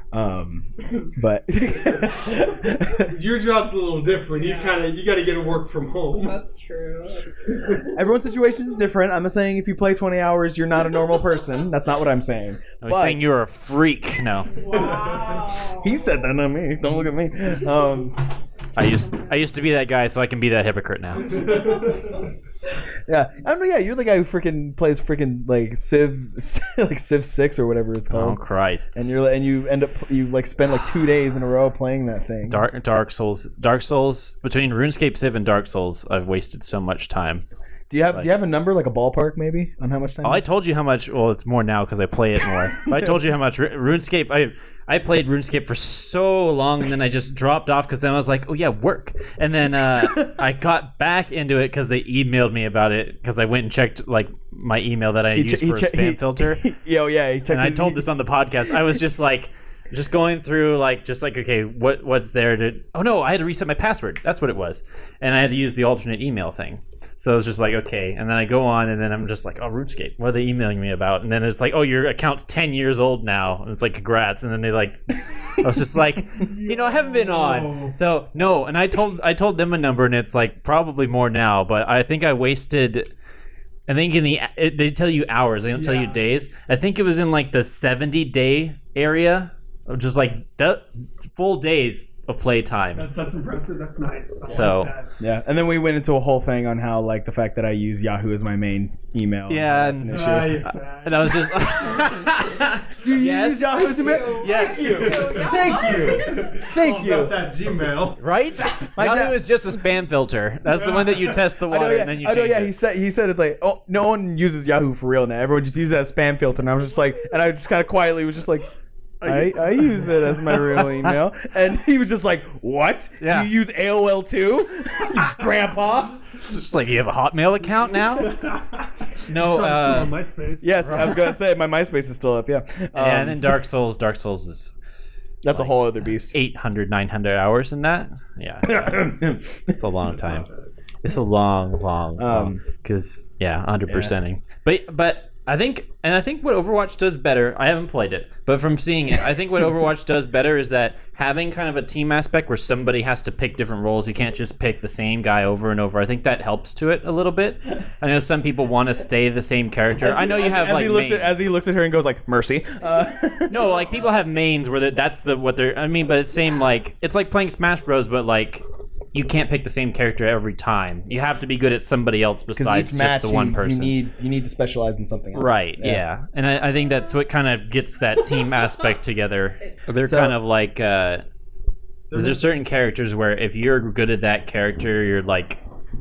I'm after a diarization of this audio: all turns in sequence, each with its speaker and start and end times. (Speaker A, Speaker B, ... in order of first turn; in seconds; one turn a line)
Speaker A: 0.1-3.1
Speaker B: 1.6-2.3
Speaker B: 2.9-6.4
Speaker C: 4.3-4.9
Speaker C: 6.2-7.9
Speaker A: 7.9-13.3
Speaker D: 12.8-14.5
Speaker C: 14.5-16.0
Speaker B: 14.7-15.4
Speaker A: 15.8-18.2
Speaker D: 18.8-21.6
Speaker C: 19.0-19.3
Speaker B: 21.3-22.0
Speaker C: 21.6-22.0
Speaker A: 23.1-28.4
Speaker D: 28.1-29.1
Speaker A: 28.9-32.6
Speaker D: 32.5-37.4
Speaker A: 37.9-40.5
Speaker D: 40.2-56.6
Speaker A: 50.0-50.3
Speaker A: 55.3-58.0
Speaker D: 57.5-83.1
Speaker B: 76.3-77.9
Speaker D: 83.9-93.1
Speaker B: 85.7-86.2
Speaker B: 93.0-95.1
Speaker D: 94.5-94.9
Speaker A: 95.2-100.7
Speaker D: 99.5-105.5
Speaker B: 100.1-101.7
Speaker A: 103.0-107.4
Speaker C: 103.6-106.6
Speaker B: 104.6-108.9
Speaker D: 108.2-112.7
Speaker A: 108.9-109.7
Speaker B: 110.7-111.4
Speaker A: 111.6-118.7
Speaker D: 119.2-121.1
Speaker A: 119.2-126.2
Speaker D: 123.2-123.5
Speaker D: 126.4-128.4
Speaker B: 128.2-131.3
Speaker D: 129.3-130.1
Speaker A: 130.6-133.6
Speaker D: 130.8-131.1
Speaker D: 132.9-134.7
Speaker A: 135.4-136.3
Speaker D: 135.5-139.0
Speaker A: 138.6-139.8
Speaker D: 139.7-140.5
Speaker B: 140.1-140.7
Speaker D: 141.0-161.4
Speaker A: 142.2-142.6
Speaker A: 143.9-144.1
Speaker A: 160.0-163.7
Speaker D: 163.5-174.0
Speaker A: 172.5-176.0
Speaker D: 175.3-181.2
Speaker A: 180.0-180.4
Speaker B: 182.1-182.4
Speaker D: 182.1-185.6